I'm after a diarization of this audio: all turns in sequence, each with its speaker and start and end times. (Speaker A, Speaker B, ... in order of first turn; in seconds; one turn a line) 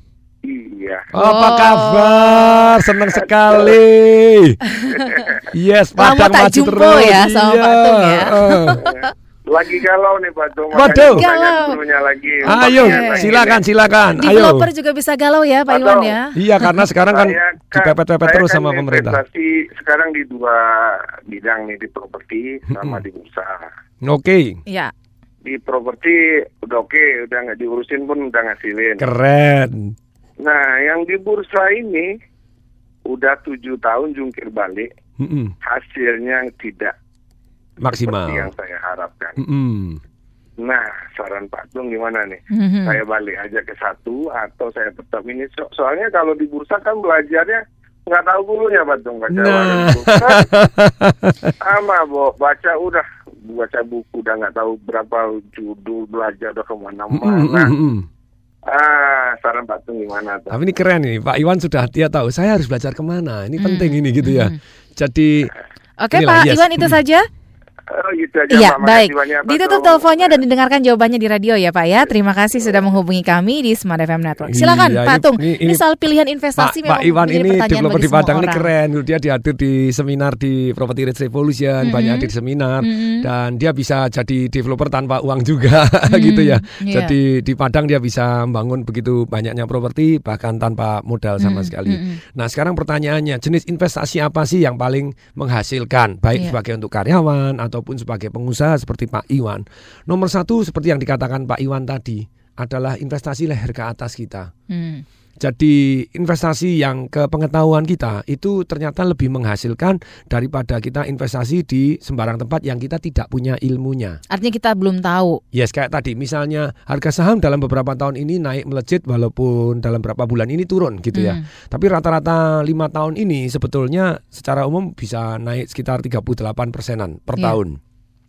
Speaker A: 0.5-1.1
Speaker B: 1.1-4.6
Speaker C: 1.2-2.3
Speaker C: 4.7-5.1
Speaker A: 5.1-5.4
Speaker B: 5.5-8.9
Speaker C: 6.0-9.0
Speaker A: 8.8-13.6
Speaker B: 10.7-11.3
Speaker C: 10.8-11.8
Speaker C: 12.4-13.4
Speaker B: 12.4-14.7
Speaker C: 14.2-16.7
Speaker A: 15.7-16.2
Speaker B: 16.4-19.2
Speaker A: 17.1-23.7
Speaker B: 22.7-23.0
Speaker B: 24.0-24.6
Speaker A: 25.4-29.1
Speaker B: 29.0-29.9
Speaker A: 30.4-32.1
Speaker A: 33.1-34.9
Speaker B: 35.2-35.5
Speaker A: 35.6-36.9
Speaker B: 37.8-38.5
Speaker A: 37.9-39.4
Speaker B: 39.4-40.0
Speaker A: 40.6-50.5
Speaker C: 42.5-43.0
Speaker B: 49.3-51.5
Speaker A: 51.6-57.7
Speaker B: 57.1-58.1
Speaker A: 58.7-60.6
Speaker B: 60.5-65.5
Speaker C: 63.6-64.6
Speaker C: 66.0-67.3
Speaker B: 66.1-66.9
Speaker A: 67.9-70.4
Speaker C: 68.5-78.7
Speaker B: 74.4-75.8
Speaker B: 76.6-104.5
Speaker C: 81.8-82.3
Speaker C: 82.8-83.3
Speaker C: 86.1-87.1
Speaker C: 91.4-92.2
Speaker C: 104.7-105.0
Speaker B: 105.4-114.2
Speaker C: 114.3-115.4
Speaker B: 115.5-127.8
Speaker C: 121.2-121.4